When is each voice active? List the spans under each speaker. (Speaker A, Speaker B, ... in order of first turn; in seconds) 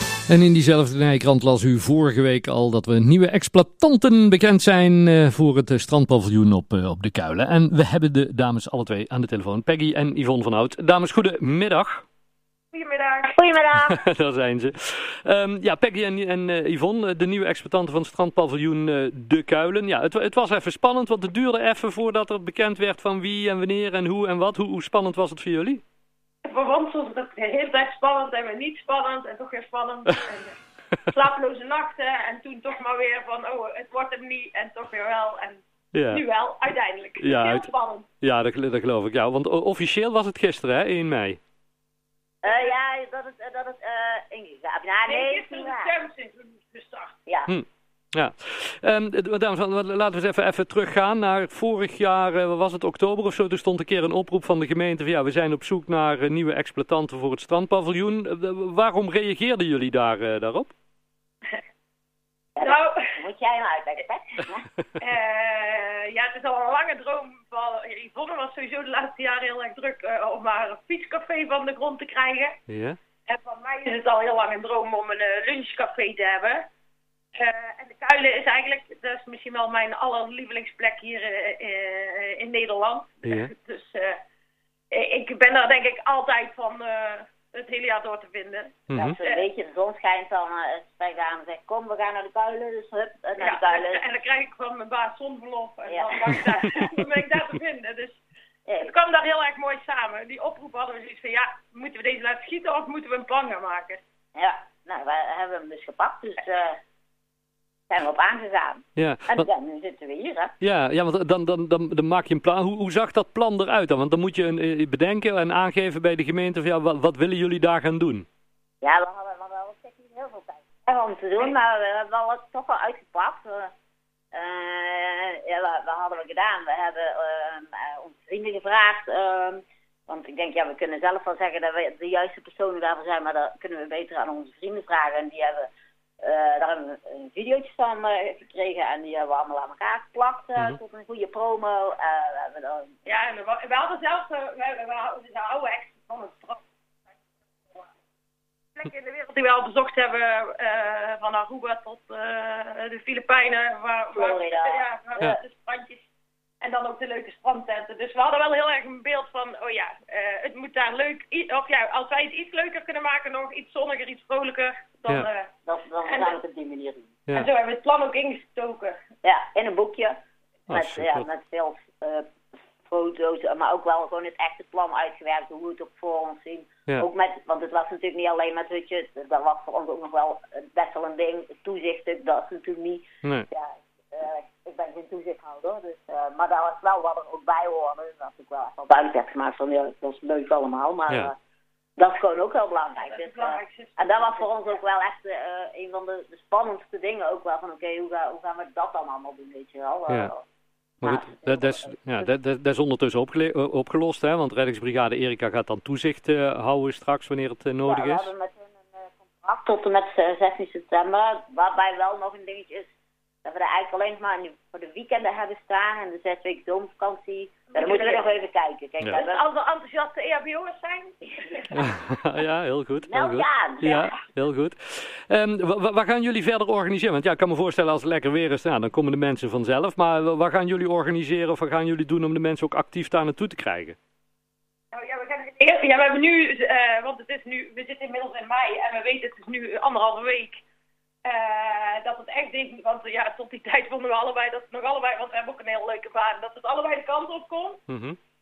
Speaker A: 0.3-12.0, 13.8-25.8, 35.9-36.2, 37.2-41.4, 47.5-60.7, 72.7-73.0, 83.2-83.5, 88.9-89.2, 109.0-109.5, 110.6-118.2, 170.7-171.2, 201.0-208.3, 221.7-233.9, 247.9-248.2
Speaker B: 12.7-13.4, 26.4-30.6, 31.1-38.1, 42.4-42.7, 45.1-47.1, 62.6-63.1, 65.0-72.6, 73.3-76.6, 77.3-84.2, 84.9-89.4, 93.4-98.2, 98.8-104.0, 143.1-147.9, 148.8-156.1, 156.6-165.5, 166.1-166.3, 167.3-169.0, 193.0-194.5, 217.7-218.3, 219.1-221.8, 234.9-240.6, 241.2-247.8
Speaker C: 13.3-14.0, 42.4-45.9, 47.3-47.5, 62.5-64.7, 88.9-94.0, 95.9-96.3, 98.7-98.9, 104.3-106.8, 107.9-110.5, 118.8-123.7, 124.3-135.7, 136.2-142.9, 154.1-155.3, 165.7-167.1, 169.2-170.2, 170.7-172.2, 172.8-191.3, 192.0-200.4, 201.0-202.2, 207.8-212.9, 213.4-219.4, 223.1-224.1